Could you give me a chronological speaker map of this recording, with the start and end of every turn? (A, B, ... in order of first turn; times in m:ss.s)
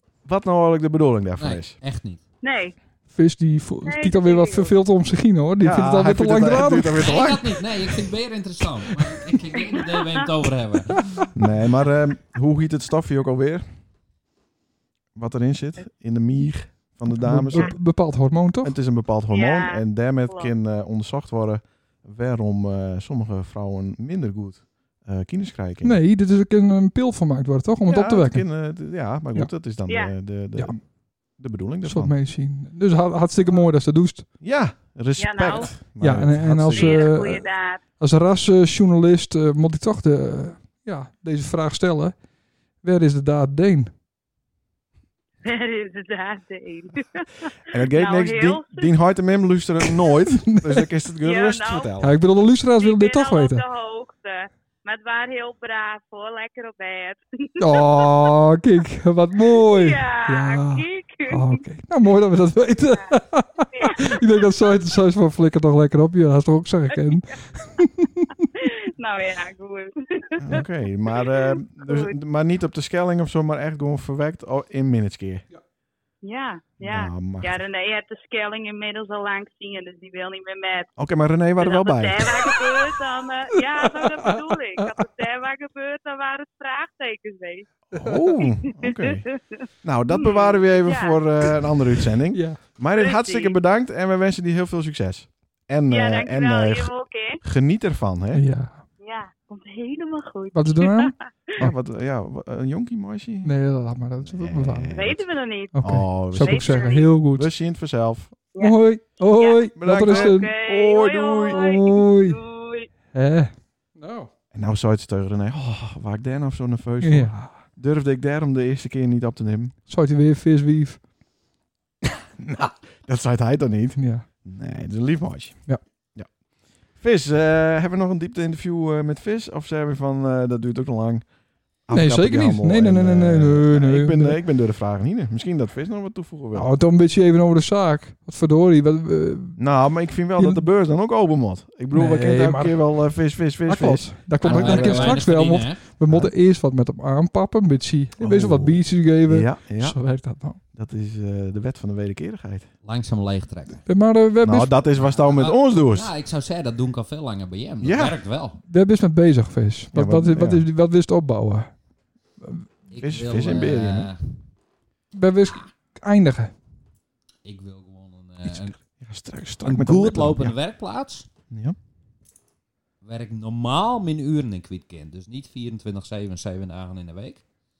0:00.2-0:01.8 A
0:01.4-0:02.2 B
0:02.4-0:02.8 C
0:03.1-0:07.0 D
0:03.8-0:04.7 C
0:05.6-0:07.8 A
0:07.0-0:11.2 B
0:09.6-0:10.3 C
0:11.4-0:13.6 A
0:15.2-0:18.0 A
0:17.1-0:18.7 D
0:18.6-0:26.0 A
0:19.3-0:20.5 C
0:25.8-0:28.5 D
0:27.9-0:32.1 A
0:29.9-0:30.2 C
0:31.8-0:34.3 D
0:34.4-0:37.0 A
0:35.2-0:35.7 C
0:36.0-0:37.5 D
0:36.7-0:37.8 C
0:38.0-0:42.2 D
0:42.8-0:43.9 D
0:45.4-0:48.9 C
0:47.7-0:52.1 A
0:50.4-0:50.9 D
0:51.2-0:51.9 C
0:52.0-0:53.6 D
0:52.8-0:58.3 C
0:57.6-1:08.3 D
0:59.5-1:01.6 C
1:02.8-1:03.2 C
1:03.7-1:04.5 C
1:08.6-1:10.5 C
1:10.4-1:15.5 A
1:11.1-1:12.2 C
1:16.2-1:20.9 C
1:16.8-1:17.6 A
1:21.0-1:22.5 A
1:21.6-1:27.7 C
1:23.9-1:25.0 D
1:27.9-1:29.3 A
1:28.4-1:31.2 C
1:29.8-1:38.4 A
1:32.3-1:32.6 D
1:32.9-1:33.6 C
1:35.9-1:37.4 C
1:38.3-1:38.8 D
1:39.0-1:41.2 C
1:40.5-1:41.8 D
1:41.6-1:43.6 A
1:43.4-1:45.0 D
1:44.2-1:45.3 A
1:44.9-1:47.2 C
1:45.7-1:47.5 D
1:45.8-1:46.8 A
1:47.3-1:48.4 A
1:48.5-1:52.9 C
1:48.6-1:50.5 D
1:49.8-1:51.6 A
1:51.5-1:52.4 D
1:53.1-1:54.3 D
1:54.5-1:59.8 A
1:57.0-1:57.6 D
1:59.9-2:01.0 D
2:02.4-2:16.7 A
2:04.0-2:04.3 D
2:11.9-2:14.4 D
2:16.5-2:19.7 D
2:19.6-2:25.2 A
2:20.4-2:20.6 D
2:21.9-2:30.6 D
2:24.4-2:25.8 B
2:26.1-2:26.3 A
2:28.2-2:30.1 A
2:30.7-2:32.7 A
2:32.8-2:33.9 B
2:33.9-2:34.8 D
2:34.4-2:36.1 A
2:35.0-2:38.6 B
2:37.8-2:38.2 A
2:38.7-2:41.8 D
2:39.9-2:40.6 A
2:42.4-2:42.7 D
2:42.9-2:44.4 B
2:43.0-2:44.1 A
2:45.1-2:46.5 D
2:47.4-2:48.9 B
2:48.5-2:50.6 A
2:49.6-2:51.3 B
2:51.5-2:51.8 A
2:53.0-2:57.5 B